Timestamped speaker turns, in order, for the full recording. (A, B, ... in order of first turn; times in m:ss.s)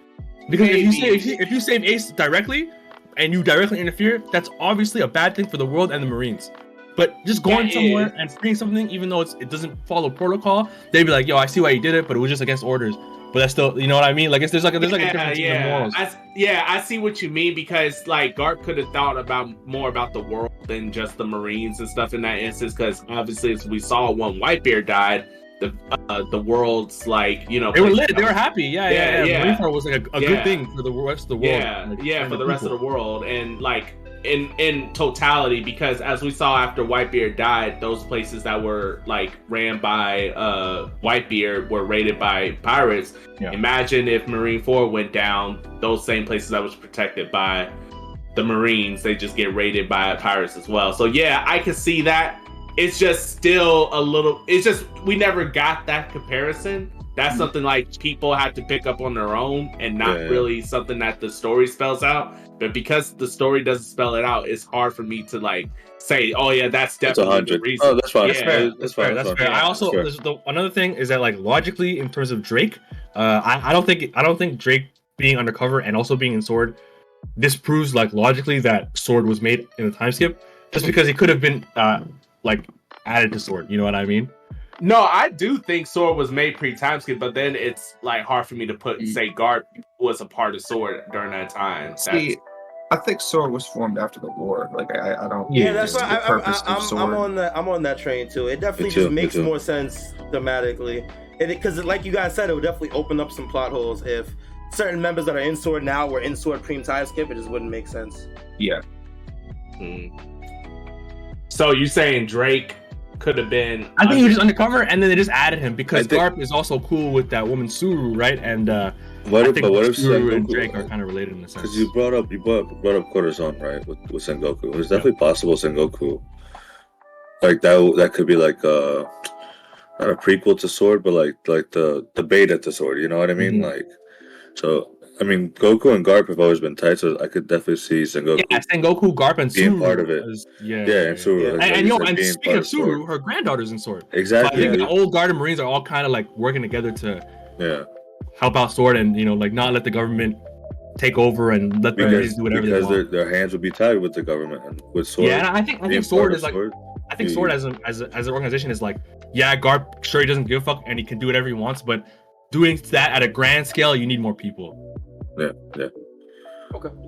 0:00.5-0:16.0 A
0:00.5-0:01.4 B
0:07.4-0:08.1 B
0:14.8-0:30.6 B
0:27.7-0:32.8 A
0:31.4-0:47.7 B
0:48.3-1:08.7 B
1:00.0-1:00.5 C
1:07.0-1:10.1 C
1:08.2-1:16.8 A
1:17.4-1:24.3 A
1:24.8-1:32.3 B
1:32.0-1:37.3 D
1:35.5-1:36.1 A
1:35.6-1:48.3 E
1:38.8-1:39.5 C
1:49.8-1:50.1 B
1:51.5-1:54.4 B
1:54.0-2:01.9 A
1:55.9-1:56.2 C
1:59.2-2:00.9 C
2:01.6-2:06.2 C
2:07.4-2:09.1 C
2:10.0-2:13.9 C
2:13.4-2:13.7 A
2:14.5-2:18.6 C
2:18.3-2:27.2 A
2:19.5-2:20.2 C
2:20.8-2:23.0 C
2:24.1-2:24.9 C
2:24.5-2:24.8 E
2:27.6-2:27.8 C
2:28.4-2:30.4 A
2:31.0-2:33.0 A
2:31.9-2:37.6 C
2:35.2-2:44.8 A
2:45.4-2:45.9 C